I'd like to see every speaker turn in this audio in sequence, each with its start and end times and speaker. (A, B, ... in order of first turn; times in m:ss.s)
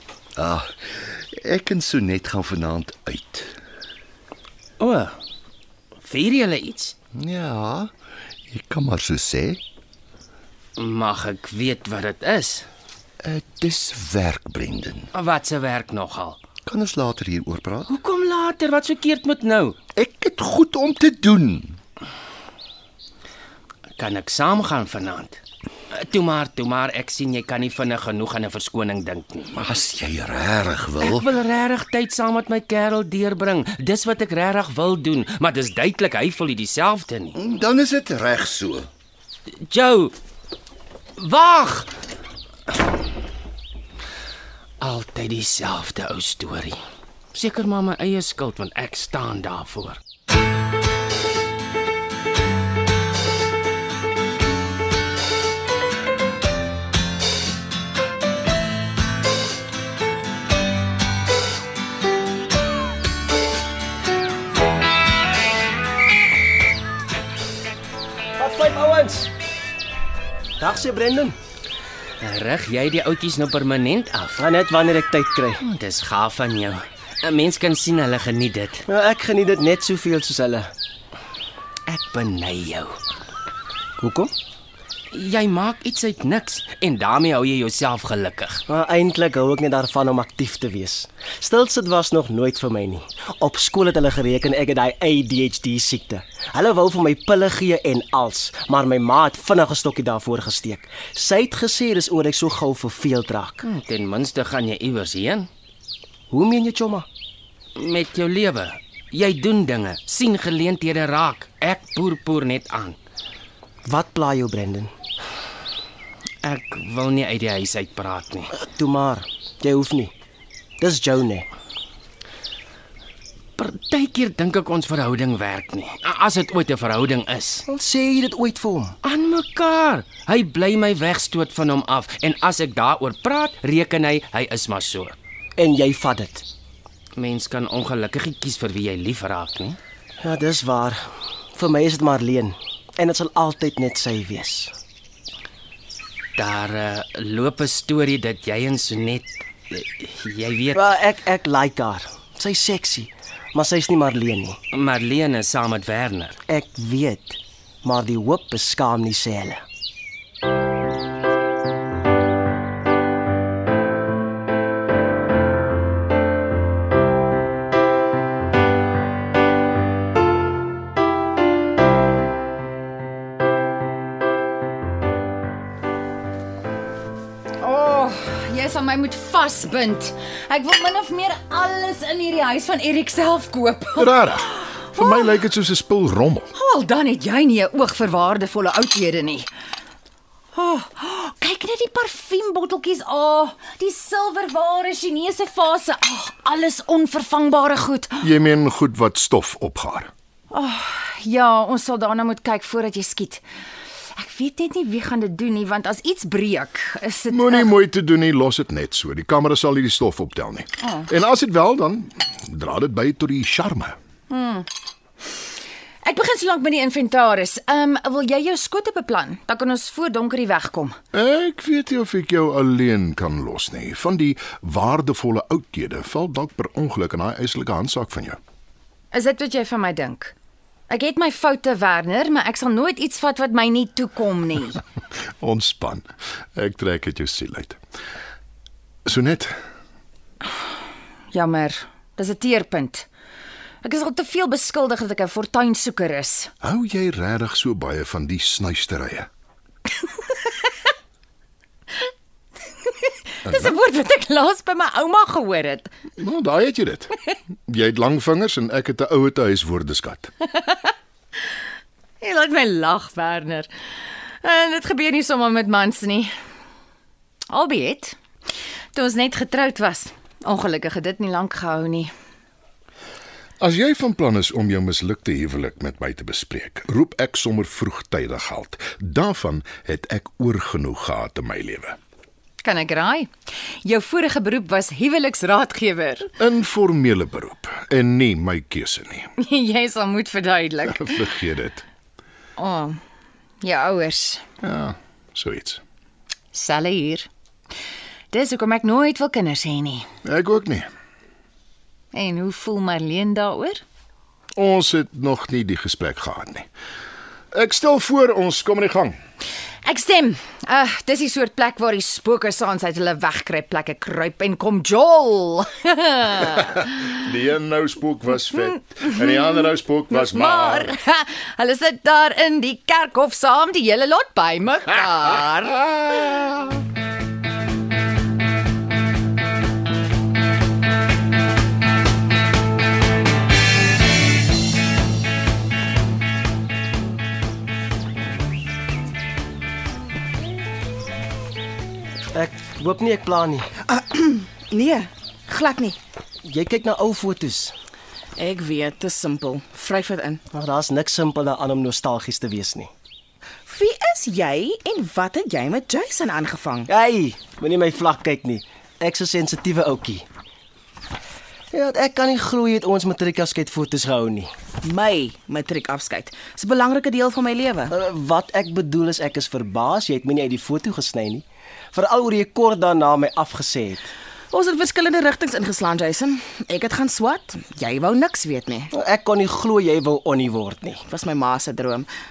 0:00.4-0:03.5 A
0:04.8-0:05.2 B
0:06.0-0:07.0 B
0:07.2-0:07.9 A
0:08.5-0:09.6 A
0:10.8-0:12.7 B
0:13.2-0:15.1 A
0:15.1-0:16.4 B
0:16.7-0:17.9 A
0:17.9-0:19.8 B
0:20.0-0:21.8 A
0:24.0-0:25.4 B
0:25.9-0:29.6 B
0:29.6-0:31.2 A
0:31.0-0:37.4 B
0:37.4-0:38.9 A
0:39.7-0:40.1 B
0:41.2-0:41.9 B
0:44.8-0:46.8 B
0:47.3-0:50.0 B
1:08.4-1:09.3 C
1:10.6-1:11.4 C
1:12.2-1:14.4 B
1:14.4-1:15.6 C
1:15.6-1:18.8 B
1:18.9-1:20.7 C
1:21.9-1:23.0 B
1:24.0-1:24.3 C
1:25.1-1:28.6 B
1:28.7-1:43.6 C
1:43.6-1:45.5 B
1:46.3-1:47.1 C
1:47.8-1:53.0 B
1:53.9-1:54.9 C
1:56.4-1:58.5 B
1:58.5-2:00.1 C
2:00.8-2:01.5 C
2:03.6-2:07.6 B
2:07.7-2:09.0 C
2:09.0-2:15.2 B
2:15.6-2:16.4 C
2:17.2-2:19.8 B
2:20.2-2:21.0 C
2:21.6-2:24.7 C
2:26.4-2:30.9 B
2:30.7-2:34.6 C
2:34.7-2:36.4 B
2:36.5-2:39.6 C
2:57.6-3:05.3 D
3:04.0-3:06.5 E
3:06.5-3:09.5 D
3:10.5-3:18.2 D
3:18.2-3:20.1 E
3:20.5-3:23.4 D
3:24.1-3:27.7 D
3:27.3-3:34.0 E
3:34.3-3:34.7 D
3:36.0-3:41.0 D
3:41.1-3:48.4 E
3:49.1-3:50.3 D
3:50.9-3:54.8 D
3:55.4-3:56.0 E
3:56.6-3:57.8 E
3:59.1-3:59.5 E
4:01.3-4:03.1 D
4:03.8-4:06.5 D
4:06.6-4:09.3 E
4:13.1-4:15.9 D
4:13.5-4:13.8 E
4:16.2-4:17.2 E
4:17.7-4:20.3 E
4:20.6-4:20.9 D
4:22.2-4:23.7 D
4:24.4-4:26.3 D
4:27.5-4:28.2 D
4:28.9-4:32.1 D
4:33.6-4:42.0 E
4:42.6-4:43.3 D
4:43.8-4:46.3 D
4:46.4-4:49.3 E
4:49.4-4:51.2 D
4:51.0-4:51.8 E
4:52.6-4:53.0 D
4:53.6-4:54.4 D
4:54.6-4:55.8 E
4:56.5-4:57.3 D
4:58.3-5:00.1 D
5:00.2-5:00.9 E
5:02.1-5:03.8 D
5:04.6-5:06.7 E
5:07.5-5:09.2 E
5:09.8-5:17.1 D
5:17.1-5:20.9 E
5:19.2-5:26.5 D
5:42.3-5:43.7 C
5:43.8-5:46.0 F
5:46.4-5:47.7 C
5:48.4-5:50.4 F
5:50.5-5:52.9 C
5:53.7-5:56.9 F
5:56.9-6:00.2 C
6:01.7-6:04.5 C
6:04.8-6:07.9 F
6:07.9-6:14.1 C
6:14.5-6:18.9 F
6:18.9-6:21.0 C
6:21.0-6:22.1 F